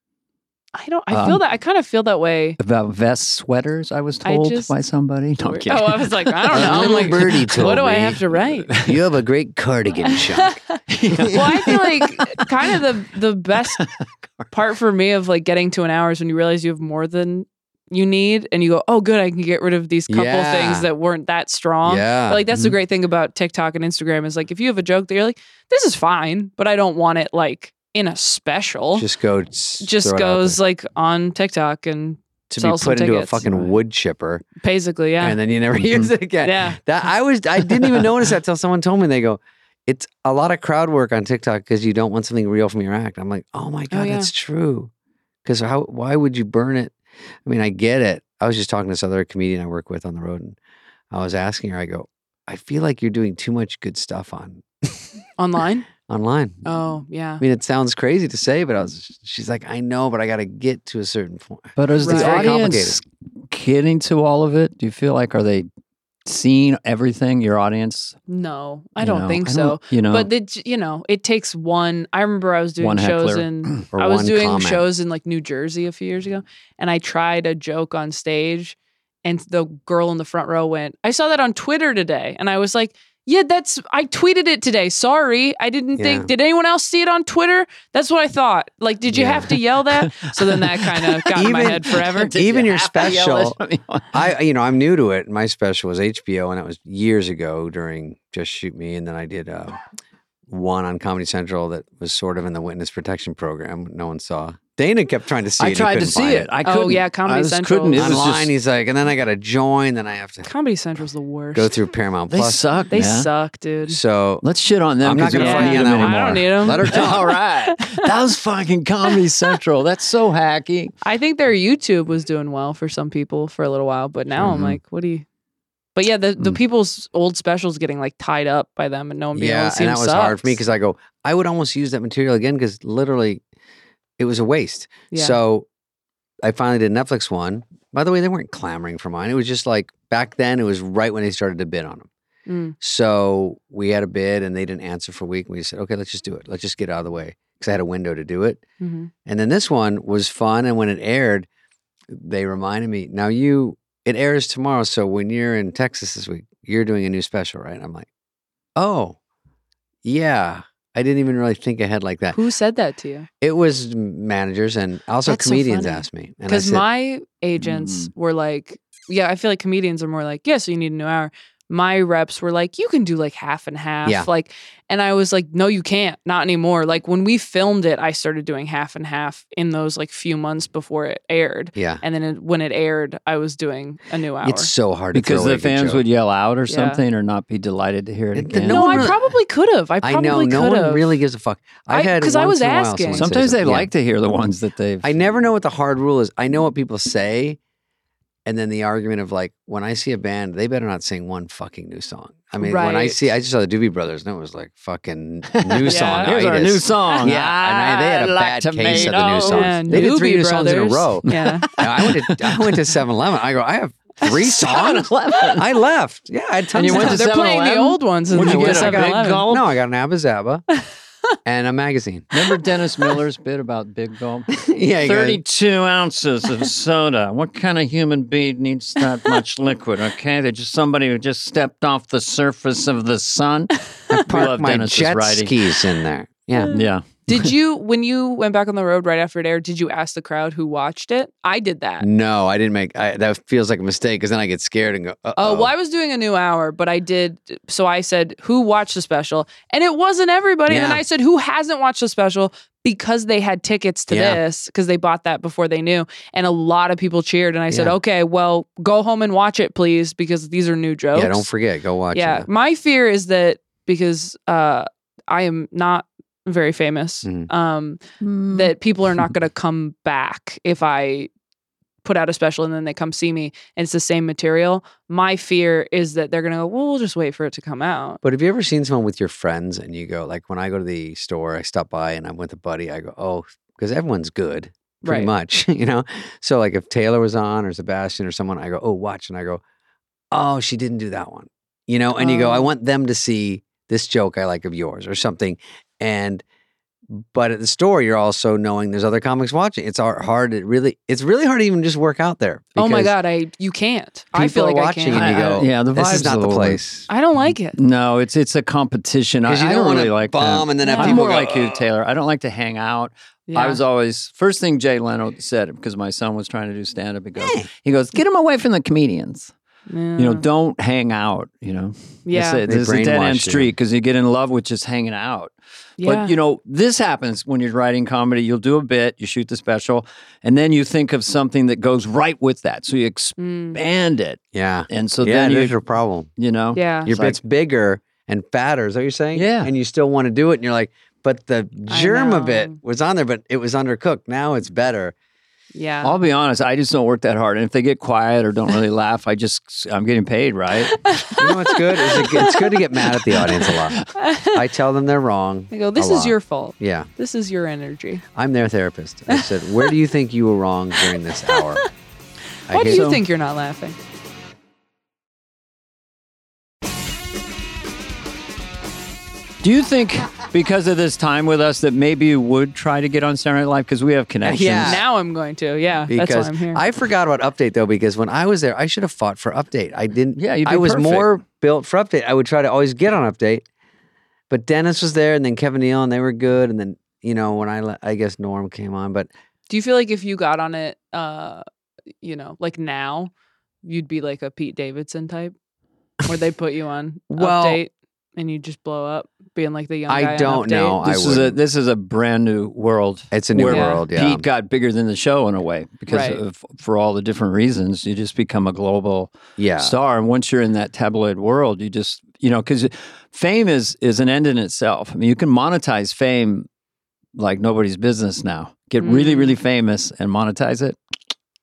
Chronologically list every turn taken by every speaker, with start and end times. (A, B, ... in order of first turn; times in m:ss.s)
0:00.7-0:02.6 A
0:01.1-0:01.4 B
0:02.6-0:09.0 B
0:04.2-0:04.7 A
0:05.4-0:08.7 A
0:06.5-0:08.2 C
0:08.8-0:10.6 C
0:10.0-0:13.8 A
0:10.9-0:12.5 B
0:11.1-0:11.8 C
0:13.8-0:14.5 B
0:14.5-0:29.1 A
0:20.1-0:20.9 C
0:21.8-0:22.5 C
0:28.9-0:30.6 C
0:29.8-0:33.6 A
0:32.5-0:34.4 C
0:34.6-0:35.4 A
0:35.2-0:44.9 C
0:36.4-0:36.8 A
0:43.9-0:44.3 A
0:45.4-0:50.6 C
0:51.1-0:55.1 C
0:55.4-0:55.9 A
0:56.0-0:56.6 C
0:56.6-0:57.4 A
0:57.4-1:03.0 C
1:01.8-1:05.7 B
1:02.0-1:02.6 A
1:06.2-1:08.2 B
1:08.3-1:32.3 A
1:09.0-1:10.3 B
1:12.8-1:13.8 B
1:13.9-1:14.8 C
1:26.0-1:26.3 C
1:29.1-1:29.5 C
1:29.9-1:34.2 B
1:31.3-1:33.6 C
1:34.1-1:39.8 C
1:40.5-1:46.5 C
1:45.6-1:48.5 B
1:46.6-1:48.2 A
1:47.9-1:50.5 C
1:50.4-1:51.8 A
1:51.5-1:52.7 C
1:52.3-1:53.3 B
1:52.9-1:54.0 A
1:53.9-1:54.4 C
1:54.4-2:00.9 B
1:55.0-1:57.3 C
1:55.3-1:58.1 A
2:01.0-2:05.2 A
2:04.4-2:04.8 C
2:06.0-2:10.6 A
2:09.3-2:13.4 C
2:14.2-2:15.6 C
2:15.1-2:15.4 A
2:16.4-2:22.1 C
2:22.5-2:22.7 A
2:22.8-2:28.6 C
2:28.8-2:29.1 A
2:29.2-2:31.5 C
2:32.1-2:38.0 C
2:38.8-2:39.2 C
2:40.0-2:42.4 C
2:42.3-2:43.3 A
2:43.4-2:46.8 C
2:45.2-3:04.7 A
2:47.6-2:48.1 B
3:01.8-3:02.0 C
3:04.4-3:06.0 C
3:05.1-3:09.1 B
3:06.7-3:07.0 A
3:08.3-3:09.2 C
3:08.7-3:11.1 A
3:10.0-3:13.9 C
3:11.9-3:13.3 A
3:13.1-3:15.1 B
3:15.0-3:17.6 C
3:18.4-3:37.2 C
3:22.6-3:23.2 A
3:25.5-3:30.1 B
3:25.8-3:26.4 A
3:29.5-3:31.7 A
3:31.2-3:32.8 B
3:34.2-3:35.6 B
3:36.7-3:39.6 B
3:36.9-3:39.5 A
3:38.4-3:40.6 C
3:41.4-3:42.3 C
3:42.3-3:44.5 B
3:44.6-3:45.4 C
3:45.0-3:55.5 B
3:54.1-3:56.7 C
3:56.6-4:02.1 A
3:56.7-3:57.5 B
4:02.0-4:05.7 C
4:05.4-4:21.5 A
4:10.7-4:11.0 C
4:14.1-4:14.4 C
4:17.7-4:18.0 C
4:21.1-4:22.5 C
4:22.1-4:28.0 A
4:28.2-4:28.7 B
4:28.5-4:31.3 A
4:32.0-4:38.2 A
4:38.2-4:49.6 C
4:45.0-4:45.3 A
4:50.3-4:56.4 C
4:52.2-4:52.7 A
4:57.1-5:03.1 C
5:02.8-5:05.5 A
5:04.3-5:07.1 C
5:05.1-5:06.8 B
5:07.1-5:07.8 A
5:07.5-5:19.5 B
5:09.5-5:11.8 C
5:10.8-5:11.2 A
5:13.5-5:13.8 A
5:17.4-5:17.7 C
5:19.9-5:20.4 A
5:20.2-5:35.7 B
5:22.3-5:22.6 A
5:22.6-5:23.7 C
5:26.0-5:26.3 A
5:33.4-5:33.8 A
5:34.5-5:36.3 C
5:36.4-5:37.4 B
5:36.7-5:37.1 A
5:37.0-5:45.1 C
5:39.3-5:39.7 B
5:41.9-5:42.8 A
5:45.7-5:46.2 A
5:46.0-5:51.0 B
5:50.9-5:52.8 A
5:51.4-5:57.1 C
5:53.6-5:54.0 B
5:54.1-5:54.6 A
5:55.7-5:58.2 A
5:58.3-6:01.8 C
5:59.3-5:59.9 A
6:01.0-6:01.9 A
6:02.7-6:03.0 C
6:02.7-6:04.0 A
6:02.8-6:03.2 B
6:09.6-6:15.0 B
6:14.4-6:15.0 C
6:14.8-6:16.8 A
6:16.1-6:23.6 C
6:20.3-6:21.4 B
6:24.5-6:29.3 C
6:29.7-6:31.6 A
6:32.2-6:33.3 A
6:33.8-6:35.5 A
6:36.2-6:41.0 A
6:37.3-6:37.8 C
6:40.1-6:41.6 C
6:41.0-6:56.7 B
6:43.3-6:44.5 C
6:43.7-6:44.0 A
6:46.1-6:46.4 A
6:49.6-6:50.0 C
6:57.4-7:01.0 B
6:59.0-6:59.6 A